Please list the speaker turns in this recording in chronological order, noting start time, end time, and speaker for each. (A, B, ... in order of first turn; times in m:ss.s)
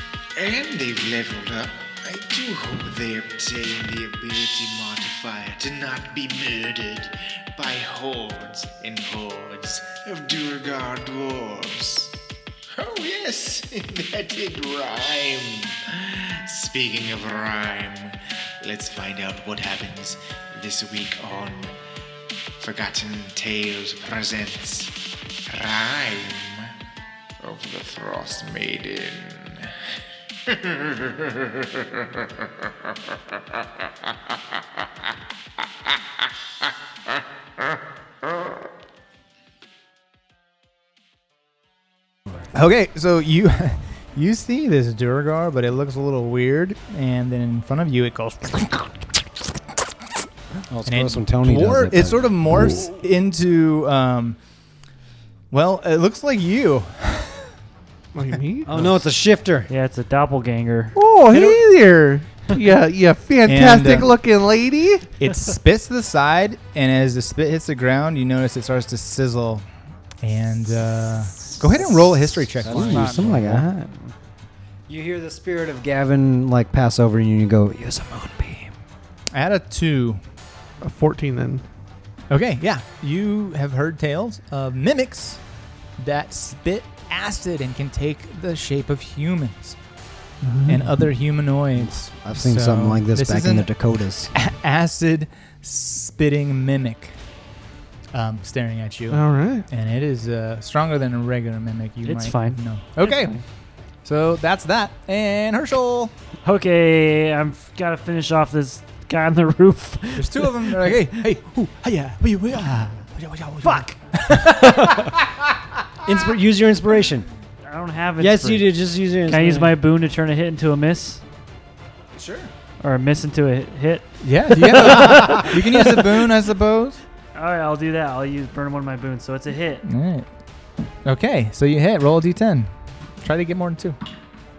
0:00.4-0:12.1 A
0:12.8-0:21.7 A
0:22.6-0:26.7 A
0:27.4-0:32.5 A
0:33.6-0:34.1 A
0:42.5-0:49.2 B
0:50.7-0:52.3 C
0:50.8-0:54.4 B
0:55.5-0:57.6 B
0:58.1-0:58.8 D
0:58.7-0:59.7 C
0:59.7-1:01.0 E
1:01.0-1:05.1 D
1:01.3-1:01.6 B
1:03.5-1:04.1 B
1:05.2-1:09.6 B
1:10.2-1:13.7 B
1:11.7-1:14.1 C
1:12.7-1:13.4 E
1:14.9-1:18.7 C
1:19.3-1:20.2 B
1:20.8-1:21.6 D
1:22.3-1:25.4 B
1:26.0-1:29.8 B
1:30.4-1:30.9 D
1:30.7-1:33.8 B
1:31.8-1:34.3 C
1:34.3-1:37.2 B
1:38.1-1:43.4 B
1:39.1-1:39.7 D
1:42.0-1:43.4 E
1:44.0-1:46.1 B
1:46.4-1:51.0 E
1:50.2-1:56.3 B
1:53.6-1:54.0 E
1:54.6-1:55.1 C
1:56.0-1:57.3 C
1:57.6-1:58.7 E
1:58.2-1:59.8 C
1:59.2-2:01.2 E
2:02.2-2:02.5 B
2:02.8-2:06.2 E
2:04.2-2:07.0 B
2:07.3-2:09.9 E
2:09.8-2:10.3 B
2:11.0-2:14.0 B